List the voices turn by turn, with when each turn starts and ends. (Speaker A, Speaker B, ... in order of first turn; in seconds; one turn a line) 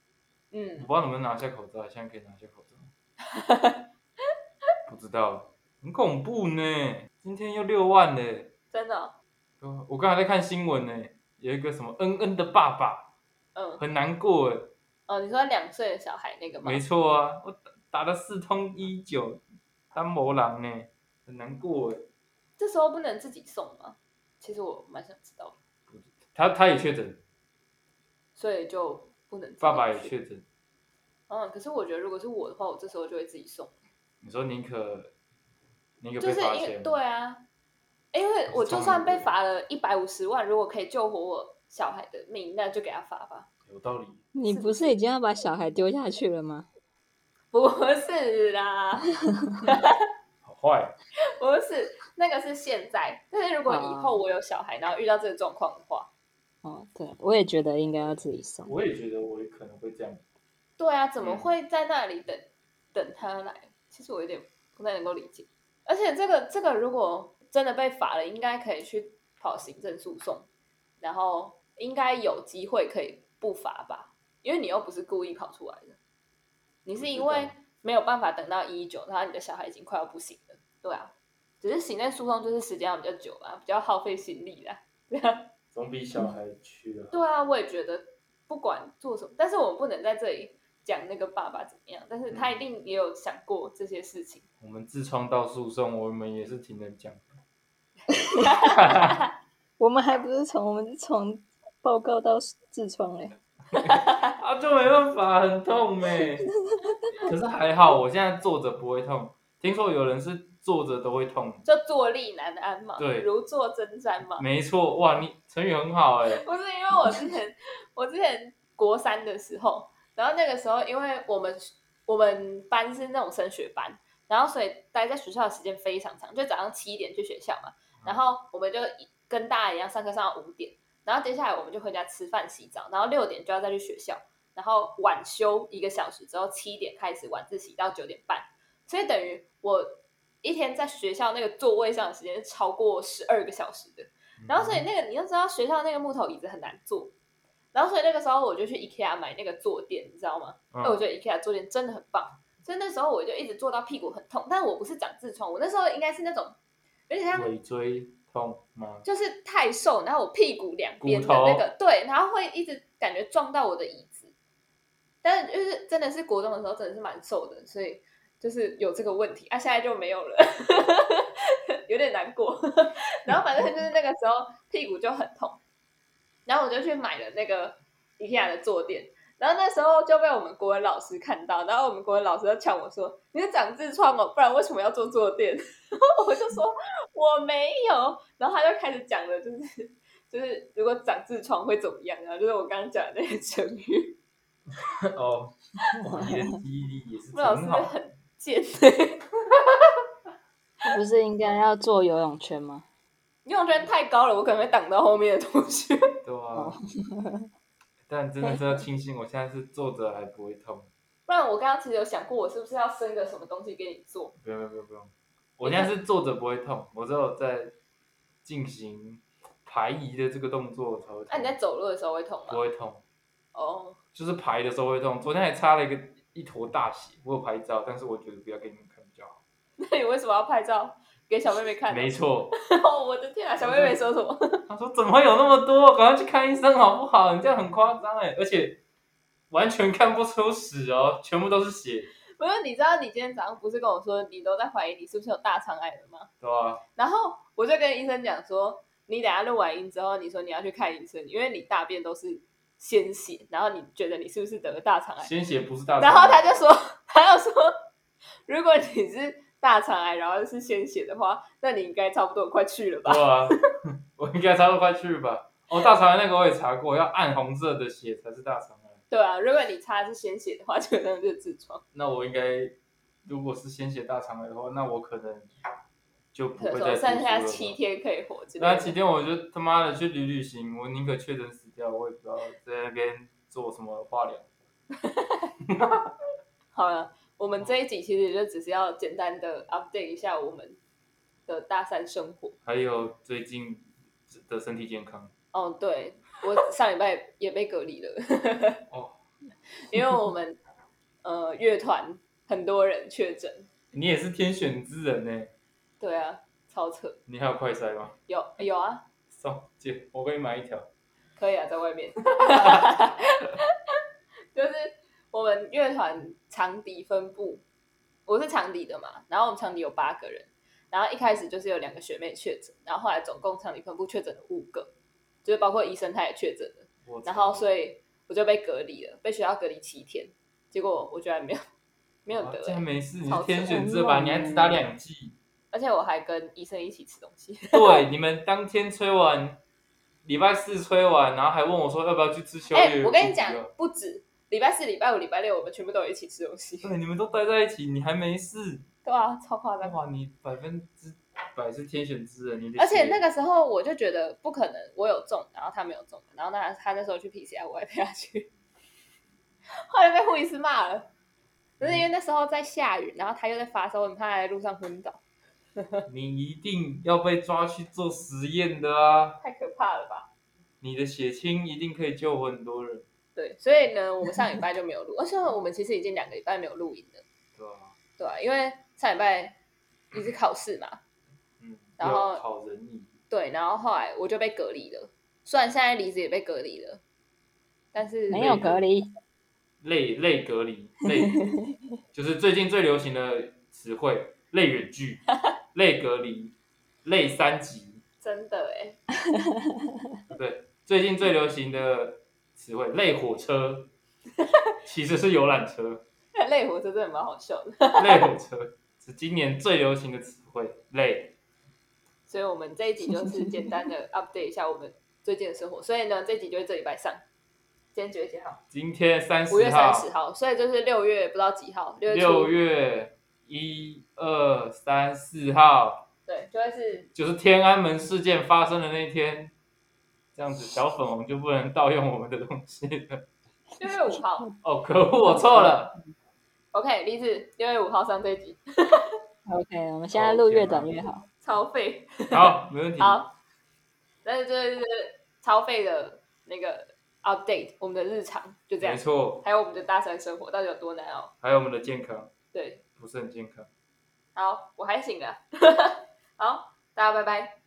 Speaker A: 0.5-0.9
Speaker B: 0.8-2.9
Speaker A: 3.2-3.9
Speaker B: 4.9-8.5
Speaker A: 8.7-9.1
Speaker B: 9.6-13.1
Speaker A: 13.6-13.8
Speaker B: 13.8-14.7
Speaker A: 15.1-16.8
Speaker B: 16.6-19.4
Speaker B: 19.9-22.1
Speaker A: 22.6-25.6
Speaker B: 25.9-27.2
Speaker A: 28.4-30.1
Speaker B: 29.6-30.4
Speaker A: 31.3-33.7
Speaker B: 34.2-35.1
Speaker B: 36.0-37.0
Speaker A: 36.2-37.5
Speaker A: 38.1-43.5
Speaker B: 38.5-39.3
Speaker B: 43.7-44.2
Speaker C: 44.3-46.7
Speaker A: 44.5-45.0
Speaker A: 47.5-50.0
Speaker B: 50.4-51.0
Speaker A: 51.4-56.1
Speaker C: 53.7-54.2
Speaker C: 56.6-58.7
Speaker B: 58.7-60.2
Speaker A: 60.8-70.5
Speaker B: 61.2-61.5
Speaker A: 71.0-76.0
Speaker A: 76.8-85.5
Speaker B: 77.0-77.5
Speaker B: 85.7-87.2
Speaker A: 87.1-94.5
Speaker B: 92.3-92.6
Speaker B: 94.6-97.3
Speaker A: 98.4-99.2
Speaker B: 98.4-99.2
Speaker C: 99.8-103.3
Speaker A: 103.8-104.4
Speaker B: 103.8-106.5
Speaker B: 107.2-111.6
Speaker A: 111.7-114.5
Speaker B: 113.0-113.3
Speaker B: 114.4-116.4
Speaker A: 116.3-147.1
Speaker B: 144.4-144.8
Speaker A: 147.7-156.6
Speaker B: 150.7-151.0
Speaker A: 157.1-157.5
Speaker B: 157.3-159.1
Speaker A: 159.1-164.3
Speaker B: 161.0-161.7
Speaker A: 165.2-175.6
Speaker A: 176.5-194.2
Speaker B: 194.8-197.9
Speaker A: 197.3-199.7
Speaker C: 200.8-202.9
Speaker A: 203.4-206.1
Speaker B: 206.2-206.8
Speaker C: 206.6-207.5
Speaker B: 208.1-210.9
Speaker A: 211.3-214.3
Speaker B: 214.4-217.7
Speaker A: 215.6-215.9
Speaker B: 218.4-221.6
Speaker A: 221.3-222.6
Speaker B: 222.5-223.0
Speaker A: 223.5-224.0
Speaker B: 224.2-229.4
Speaker A: 229.8-234.7
Speaker B: 231.9-232.5
Speaker B: 233.6-234.0
Speaker B: 234.7-238.8
Speaker B: 239.5-242.1
Speaker A: 242.4-246.3
Speaker B: 246.4-246.8
Speaker A: 247.0-255.3
Speaker B: 255.2-256.6
Speaker A: 256.0-257.8
Speaker A: 258.5-263.6
Speaker B: 263.1-269.0
Speaker A: 269.1-271.8
Speaker B: 271.9-272.8
Speaker B: 273.3-275.5
Speaker B: 276.3-277.8
Speaker A: 276.6-279.0
Speaker B: 278.6-284.5
Speaker A: 285.0-285.5
Speaker B: 285.7-286.1
Speaker A: 286.7-290.8
Speaker A: 291.5-292.6
Speaker B: 292.6-295.3
Speaker A: 295.5-298.8
Speaker B: 298.9-299.2
Speaker A: 299.9-300.6
Speaker A: 301.2-303.7
Speaker B: 303.9-305.5
Speaker A: 306.0-307.2
Speaker B: 307.3-308.1
Speaker A: 308.3-309.0
Speaker B: 309.3-310.9
Speaker A: 311.4-313.7
Speaker B: 312.4-312.8
Speaker A: 314.5-317.6
Speaker A: 318.3-324.9
Speaker A: 325.4-331.6
Speaker B: 327.1-327.7
Speaker A: 332.3-334.8
Speaker B: 332.3-335.4
Speaker C: 334.0-334.4
Speaker A: 335.7-338.0
Speaker B: 337.7-339.6
Speaker B: 340.2-343.7
Speaker A: 342.7-346.9
Speaker B: 346.8-348.9
Speaker A: 349.1-350.0
Speaker B: 349.8-353.2
Speaker A: 352.8-358.5
Speaker A: 359.9-361.1
Speaker A: 361.8-365.2
Speaker A: 365.8-366.1
Speaker B: 366.1-369.4
Speaker A: 369.4-370.3
Speaker B: 370.8-373.1
Speaker A: 373.4-377.2
Speaker B: 377.6-377.9
Speaker A: 378.2-379.6
Speaker A: 380.1-381.0
Speaker B: 381.6-383.2
Speaker A: 382.0-382.4
Speaker A: 383.3-387.0
Speaker A: 387.9-388.6
Speaker C: 388.3-389.1
Speaker B: 388.3-388.9
Speaker B: 389.8-391.5
Speaker C: 391.4-391.7
Speaker B: 392.1-398.0
Speaker A: 398.2-399.0
Speaker C: 399.3-399.9
Speaker B: 400.3-403.9
Speaker B: 404.8-406.0
Speaker A: 406.3-408.3
Speaker B: 408.0-411.3
Speaker A: 412.3-417.2
Speaker C: 413.1-413.8
Speaker A: 417.9-418.6
Speaker B: 418.7-420.1
Speaker A: 419.5-422.6
Speaker B: 422.1-426.1
Speaker A: 426.3-427.1
Speaker B: 427.1-429.5
Speaker B: 430.4-433.3
Speaker A: 433.8-434.5
Speaker B: 434.6-436.0
Speaker C: 435.3-435.8
Speaker A: 436.7-439.2
Speaker C: 439.5-441.3
Speaker B: 440.1-440.9
Speaker A: 441.4-443.3
Speaker B: 442.3-443.2
Speaker A: 444.2-451.3
Speaker B: 448.8-449.5
Speaker B: 451.4-452.3
Speaker A: 452.5-452.8
Speaker B: 453.0-453.7
Speaker A: 454.4-457.6